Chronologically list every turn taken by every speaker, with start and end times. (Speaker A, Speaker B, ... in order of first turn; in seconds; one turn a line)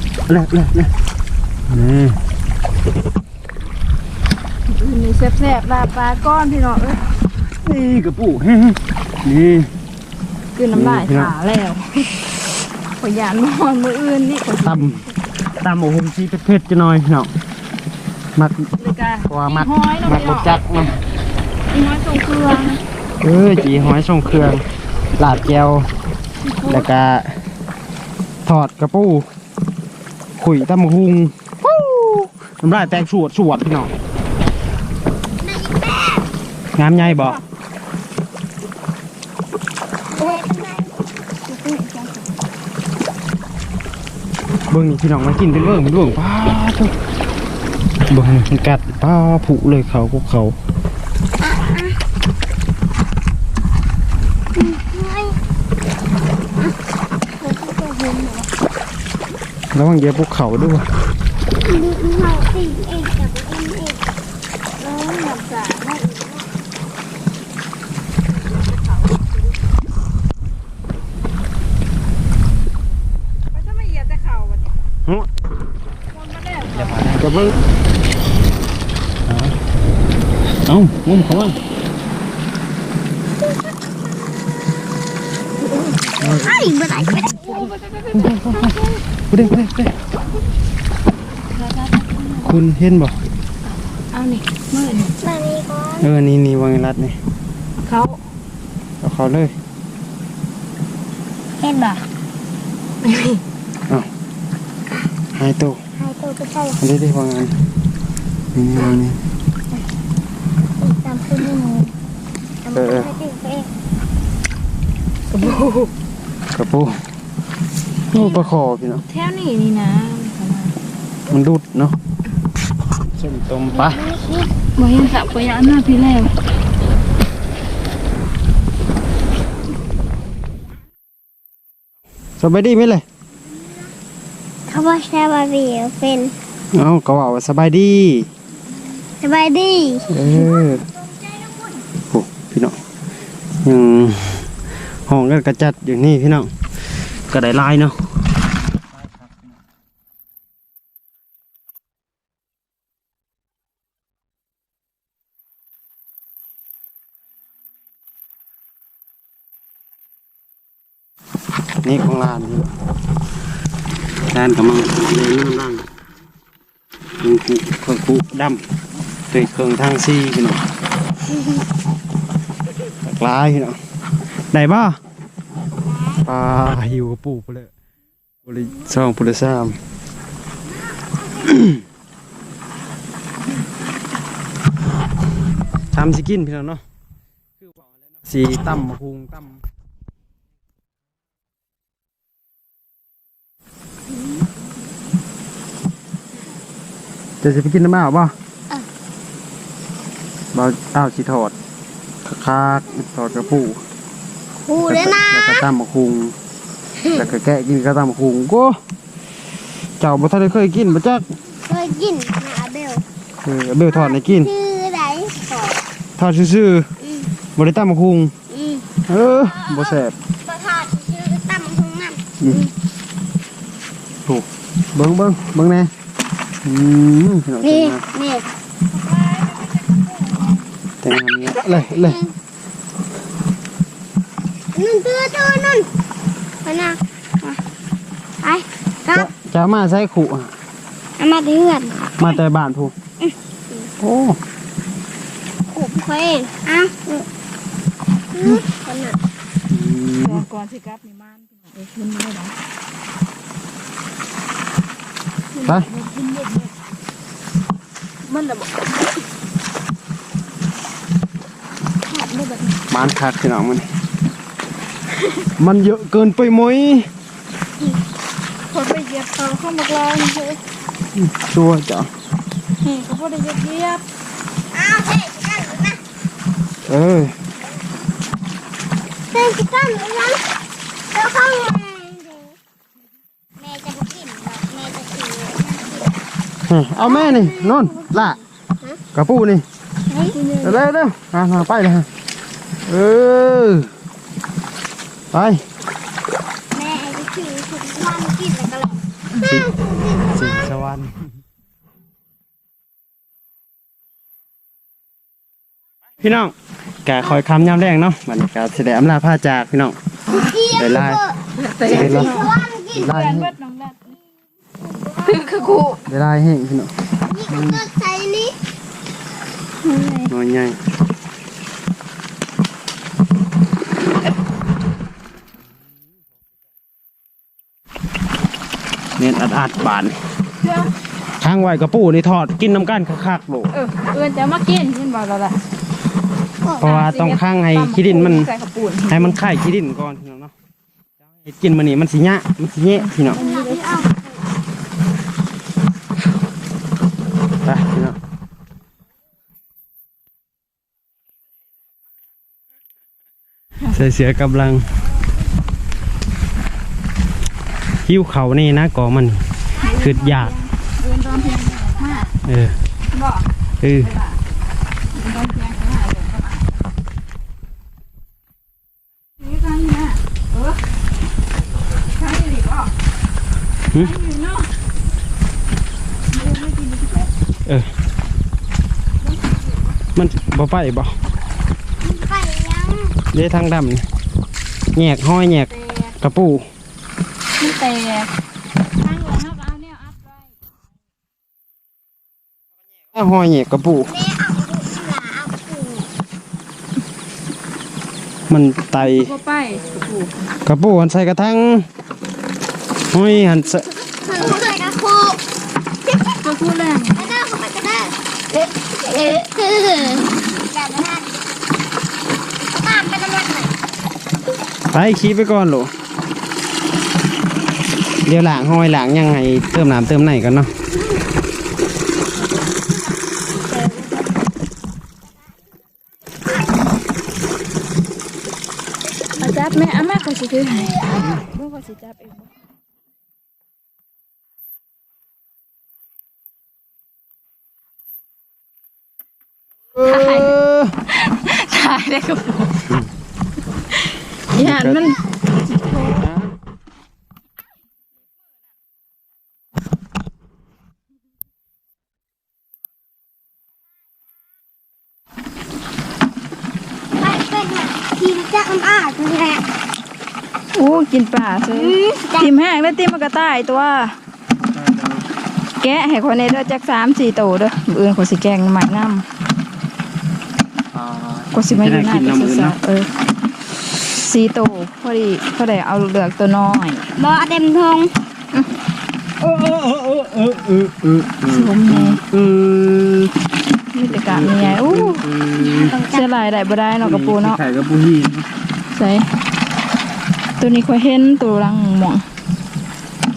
Speaker A: 0.3-0.9
Speaker A: 1.7-2.2
Speaker B: 4.7-7.1
Speaker A: 7.6-9.7
Speaker B: 10.6-12.2
Speaker A: 10.7-11.3
Speaker B: 13.0-15.0
Speaker A: 14.6-15.0
Speaker A: 15.6-17.3
Speaker A: 18.4-18.7
Speaker B: 18.8-20.5
Speaker A: 19.3-21.0
Speaker B: 21.7-22.8
Speaker A: 23.2-24.6
Speaker A: 25.2-25.9
Speaker B: 26.4-26.9
Speaker A: 26.7-27.4
Speaker A: 28.4-29.3
Speaker A: 30.4-33.9
Speaker C: 35.4-36.3
Speaker A: 36.8-37.4
Speaker B: 37.0-37.4
Speaker C: 40.1-40.9
Speaker B: 41.4-42.3
Speaker A: 44.7-46.9
Speaker A: 48.1-50.5
Speaker C: 51.4-52.0
Speaker C: 54.5-55.4
Speaker B: 57.4-58.5
Speaker A: 59.7-60.9
Speaker C: 61.6-64.0
Speaker B: 64.8-66.5
Speaker B: 68.8-69.3
Speaker B: 73.5-74.8
Speaker B: 76.1-77.5
Speaker A: 76.7-77.6
Speaker A: 79.3-79.5
Speaker A: 80.7-81.6
Speaker C: 85.7-87.7
Speaker A: 86.0-87.3
Speaker B: 87.3-88.9
Speaker A: 88.1-88.7
Speaker A: 89.3-89.9
Speaker B: 91.6-92.5
Speaker A: 92.4-93.2
Speaker B: 94.1-95.1
Speaker C: 95.2-96.1
Speaker A: 96.0-97.2
Speaker B: 97.8-98.2
Speaker A: 99.0-99.5
Speaker C: 101.6-102.0
Speaker B: 103.1-103.4
Speaker A: 105.3-105.8
Speaker C: 106.0-106.8
Speaker A: 106.8-107.5
Speaker A: 108.5-109.2
Speaker C: 110.8-111.9
Speaker C: 112.6-113.7
Speaker A: 112.7-113.1
Speaker B: 115.3-115.9
Speaker A: 116.5-117.0
Speaker A: 118.1-119.0
Speaker B: 119.1-120.7
Speaker A: 121.3-122.0
Speaker A: 123.1-124.0
Speaker C: 123.7-124.5
Speaker B: 124.8-126.3
Speaker A: 132.4-133.0
Speaker C: 134.7-136.3
Speaker A: 136.7-138.3
Speaker C: 139.2-140.6
Speaker A: 140.1-140.8
Speaker A: 142.1-142.8
Speaker A: 143.6-144.5
Speaker A: 145.1-146.5
Speaker A: 147.3-148.1
Speaker A: 161.8-162.7
Speaker A: 164.3-165.9
Speaker A: 167.2-168.6
Speaker A: 169.3-170.6
Speaker A: 173.0-173.8
Speaker A: 174.3-175.0
Speaker C: 175.9-176.2
Speaker A: 176.2-177.7
Speaker A: 178.4-179.8
Speaker A: 181.4-181.8
Speaker A: 185.9-186.8
Speaker A: 187.6-189.6
Speaker A: 197.4-198.3
Speaker A: 200.5-201.6
Speaker A: 202.2-203.8
Speaker C: 204.6-205.7
Speaker A: 204.8-206.3
Speaker A: 207.1-208.8
Speaker A: 210.0-211.3
Speaker C: 211.6-213.0
Speaker A: 213.4-214.5
Speaker C: 213.9-215.8
Speaker A: 216.2-216.9
Speaker A: 217.6-218.3
Speaker C: 218.5-218.9
Speaker A: 219.1-220.1
Speaker C: 219.6-222.7
Speaker A: 224.2-225.9
Speaker A: 226.6-228.0
Speaker C: 227.6-228.4
Speaker C: 229.2-230.5
Speaker A: 231.0-232.2
Speaker C: 234.7-235.9
Speaker C: 236.6-237.6
Speaker C: 238.4-239.3
Speaker A: 239.1-240.5
Speaker C: 241.2-242.3
Speaker A: 242.2-242.9
Speaker C: 243.2-243.9
Speaker A: 244.0-244.4
Speaker C: 245.7-247.3
Speaker C: 248.3-249.2
Speaker A: 249.7-250.4
Speaker B: 250.2-252.5
Speaker B: 255.6-256.7
Speaker B: 258.3-258.6
Speaker B: 262.1-262.7
Speaker A: 262.9-263.9
Speaker A: 265.6-267.1
Speaker B: 268.7-270.6
Speaker A: 271.1-272.1
Speaker B: 272.8-274.0
Speaker C: 274.7-276.0
Speaker A: 276.9-277.3
Speaker C: 279.3-280.4
Speaker C: 281.1-282.6
Speaker C: 283.6-286.2
Speaker A: 286.7-288.4
Speaker C: 287.0-289.0
Speaker A: 289.1-289.6
Speaker C: 290.1-290.5
Speaker B: 290.3-290.8
Speaker A: 290.6-292.1
Speaker A: 292.8-293.9
Speaker A: 295.3-295.6
Speaker C: 296.7-300.7
Speaker A: 299.4-299.7
Speaker A: 300.3-301.3
Speaker A: 306.2-310.0
Speaker C: 310.3-313.1
Speaker A: 310.7-311.2
Speaker B: 311.6-314.1
Speaker A: 311.8-313.5
Speaker C: 314.8-315.8
Speaker B: 315.2-316.0
Speaker A: 316.1-316.9
Speaker C: 317.2-318.6
Speaker A: 317.5-317.8
Speaker B: 319.8-320.3
Speaker A: 320.3-320.8
Speaker A: 329.2-330.2
Speaker B: 330.6-330.9
Speaker A: 331.4-333.7
Speaker B: 333.7-335.6
Speaker C: 336.6-336.9
Speaker A: 336.8-338.5
Speaker B: 336.8-339.4
Speaker A: 339.1-340.5
Speaker A: 341.3-343.4
Speaker B: 343.1-344.1
Speaker C: 343.3-344.3
Speaker A: 347.6-348.2
Speaker A: 353.9-354.9
Speaker A: 358.1-360.5
Speaker B: 359.8-362.3
Speaker A: 362.4-362.8
Speaker B: 363.1-363.4
Speaker A: 363.8-364.1
Speaker B: 364.0-364.3
Speaker B: 365.1-366.7
Speaker B: 369.4-370.8
Speaker B: 372.1-372.9
Speaker B: 373.9-374.7
Speaker B: 376.3-377.3
Speaker A: 380.1-381.1
Speaker C: 382.0-383.1
Speaker A: 383.3-384.1
Speaker A: 384.9-386.7
Speaker B: 387.6-388.3
Speaker B: 389.0-390.2
Speaker A: 393.1-394.1
Speaker C: 394.1-396.1
Speaker A: 398.5-399.3
Speaker B: 399.0-400.3
Speaker A: 400.6-401.9
Speaker A: 403.1-403.9
Speaker C: 403.9-405.4
Speaker C: 406.1-406.4
Speaker B: 406.4-407.2
Speaker C: 407.1-408.2
Speaker B: 409.1-409.4
Speaker C: 409.3-411.3
Speaker C: 412.7-413.7
Speaker A: 414.9-415.9
Speaker A: 418.2-420.7
Speaker C: 422.6-424.4
Speaker B: 429.4-432.5
Speaker C: 430.9-431.3
Speaker A: 439.9-440.9
Speaker B: 440.0-440.6
Speaker B: 441.1-442.9
Speaker B: 444.0-446.3
Speaker A: 444.6-445.1
Speaker A: 446.2-446.5
Speaker C: 457.2-459.6
Speaker B: 460.7-464.2
Speaker C: 461.7-462.5
Speaker A: 464.6-465.2
Speaker B: 465.8-469.2
Speaker A: 470.9-472.8
Speaker B: 471.5-473.1
Speaker B: 474.0-477.1
Speaker C: 477.2-478.1
Speaker A: 479.4-483.3
Speaker B: 481.5-482.2
Speaker B: 483.9-485.2
Speaker A: 484.1-485.9
Speaker C: 485.5-486.7
Speaker B: 486.1-487.6
Speaker A: 487.0-488.5
Speaker B: 488.9-489.3
Speaker B: 490.6-492.2